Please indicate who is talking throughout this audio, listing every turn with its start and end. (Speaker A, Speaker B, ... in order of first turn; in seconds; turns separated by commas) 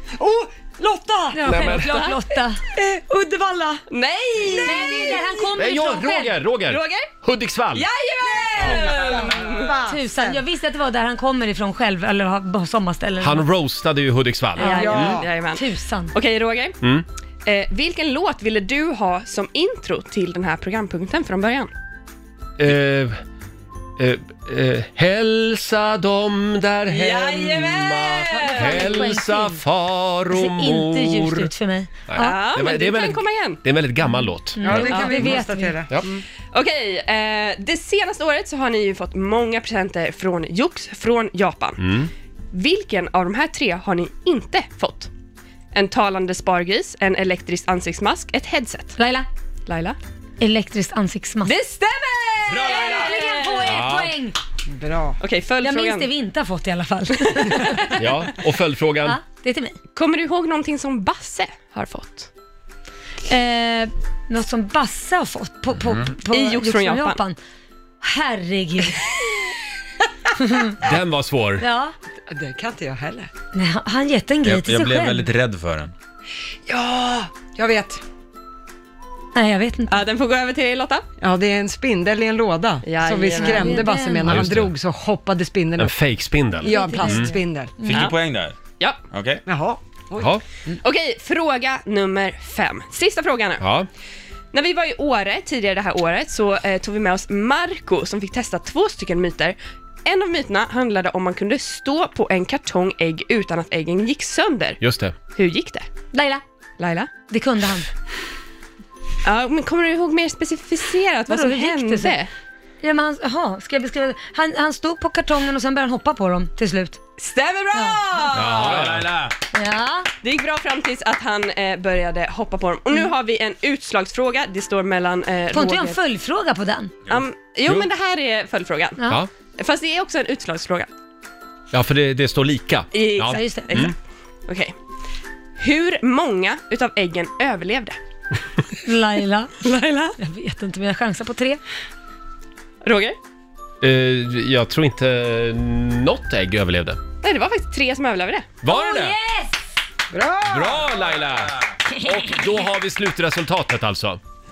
Speaker A: 0.1-1.5, Speaker B: 1.3-3.8, Speaker C: 1.4-1.9, Speaker D: 1.7-2.2, Speaker D: 3.9-5.2, Speaker B: 4.6-6.4, Speaker A: 4.8-5.1, Speaker C: 5.6-7.9, Speaker D: 6.7-7.1, Speaker D: 7.7-9.8, Speaker A: 8.6-10.4, Speaker B: 9.9-13.4, Speaker C: 13.2-15.2, Speaker B: 14.6-16.1, Speaker A: 14.6-15.3, Speaker D: 14.8-16.8, Speaker D: 17.4-21.7, Speaker C: 22.6-23.2, Speaker C: 24.0-31.5, Speaker D: 26.9-29.0, Speaker B: 28.4-29.6, Speaker B: 30.3-32.5, Speaker C: 32.1-34.9, Speaker D: 32.2-33.6, Speaker B: 34.5-35.8, Speaker A: 34.6-35.9, Speaker D: 34.9-35.3, Speaker D: 36.1-41.8, Speaker C: 41.8-42.1, Speaker D: 42.5-45.1, Speaker D: 45.7-49.0, Speaker B: 49.0-49.3, Speaker D: 49.7-50.0, Speaker B: 50.4-51.5, Speaker D: 51.5-53.7, Speaker B: 52.5-54.4, Speaker E: 52.6-53.0, Speaker C: 53.6-54.2, Speaker A: 54.7-55.2, Speaker D: 55.2-56.1, Speaker B: 55.6-58.1, Speaker C: 58.0-59.2, Speaker B: 59.0-59.8, Speaker D: 60.0-62.3, Speaker B: 63.3-67.4, Speaker D: 66.3-67.2, Speaker B: 68.0-69.1, Speaker B: 70.4-70.8, Speaker C: 70.8-71.7, Speaker B: 71.6-71.9, Speaker A: 72.3-73.3, Speaker B: 73.5-75.3, Speaker E: 74.5-75.9, Speaker A: 76.7-78.0, Speaker B: 79.3-80.0, Speaker D: 79.9-81.1, Speaker A: 81.2-85.9, Speaker D: 82.8-83.8, Speaker B: 83.4-84.3, Speaker C: 84.2-84.7, Speaker C: 85.8-87.3, Speaker A: 86.6-87.7, Speaker B: 86.6-87.9, Speaker E: 87.9-88.6, Speaker D: 87.9-88.2, Speaker E: 89.1-89.4, Speaker A: 89.5-90.3, Speaker C: 90.2-90.4, Speaker D: 90.7-93.6, Speaker C: 93.6-93.9, Speaker D: 94.5-104.8, Speaker C: 104.8-105.2, Speaker D: 105.3-105.9, Speaker B: 106.1-106.4, Speaker D: 106.8-107.1, Speaker B: 107.3-107.9, Speaker D: 109.2-112.3, Speaker B: 111.3-112.2, Speaker B: 112.8-117.0, Speaker D: 117.2-118.9, Speaker B: 117.7-118.0, Speaker C: 118.3-119.1, Speaker E: 118.5-119.4, Speaker B: 119.4-120.1, Speaker D: 120.2-126.0, Speaker B: 125.5-126.9, Speaker D: 127.1-129.0, Speaker D: 129.6-130.9, Speaker C: 131.7-133.9, Speaker D: 132.9-133.9, Speaker B: 133.3-133.9, Speaker D: 134.5-134.7, Speaker D: 135.6-138.0, Speaker B: 138.8-139.6, Speaker D: 139.6-140.2, Speaker B: 140.2-141.6, Speaker D: 142.8-143.2, Speaker C: 143.8-147.0, Speaker D: 147.2-148.5, Speaker C: 148.6-149.2, Speaker B: 148.7-149.6, Speaker A: 150.1-150.9, Speaker C: 150.4-154.2, Speaker B: 151.9-152.7